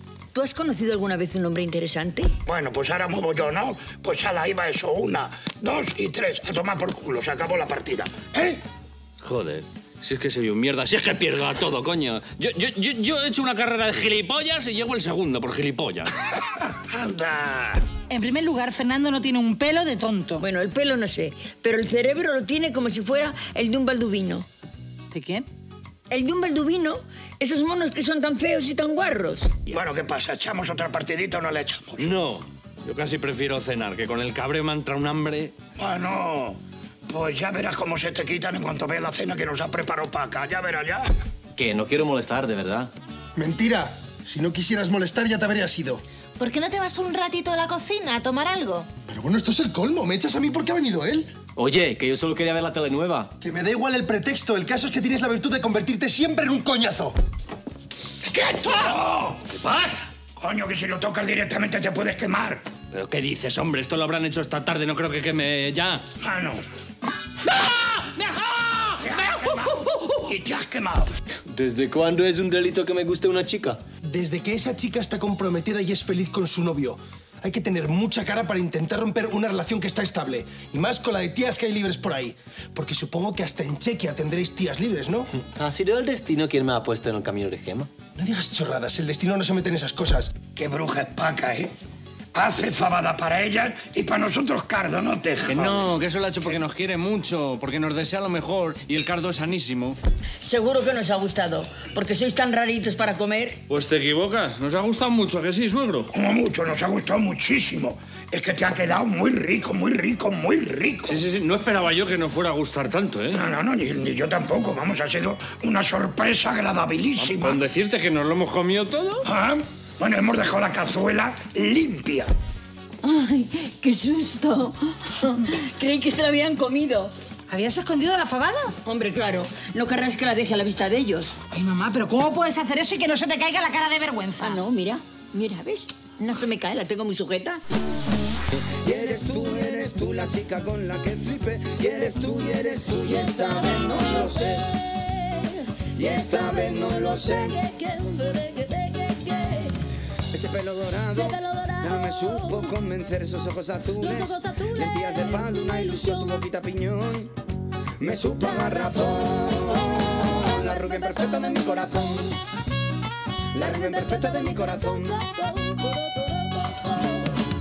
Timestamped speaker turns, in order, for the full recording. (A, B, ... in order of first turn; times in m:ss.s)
0:00.3-0:02.3 A
0:02.5-0:08.6 B
0:09.2-0:16.1 C
0:16.6-0:17.8 B
0:18.1-0:20.4 D
0:20.4-0:24.5 A
0:25.1-0:25.5 D
0:26.1-0:29.6 A
0:29.7-0:32.1 B
0:32.0-0:35.6 C
0:35.8-0:41.1 B
0:41.6-0:42.9 E
0:43.4-0:46.0 F
0:46.4-0:48.9 G
0:49.1-0:51.4 F
0:51.6-0:53.3 E
0:53.4-0:57.2 F
0:58.3-0:59.5 B
0:59.6-1:00.1 C
1:00.4-1:02.6 B
1:02.9-1:06.0 C
1:06.2-1:06.6 B
1:07.5-1:09.8 C
1:09.0-1:11.1 B
1:11.5-1:13.8 E
1:14.0-1:25.3 F
1:25.4-1:27.9 E
1:28.2-1:30.4 F
1:30.6-1:31.7 B
1:32.3-1:35.9 B
1:35.5-1:40.0 C
1:40.4-1:43.6 A
1:43.7-1:46.1 C
1:46.1-1:51.2 B
1:51.1-1:53.4 C
1:53.3-1:57.6 B
1:57.2-1:59.3 C
1:59.2-2:02.3 B
2:03.0-2:07.1 A
2:07.5-2:08.8 D
2:08.8-2:11.4 A
2:11.5-2:14.6 D
2:14.4-2:17.6 A
2:18.8-2:24.8 H
2:26.0-2:29.6 H
2:30.3-2:37.4 H
2:38.0-2:42.4 H
2:43.5-2:46.9 H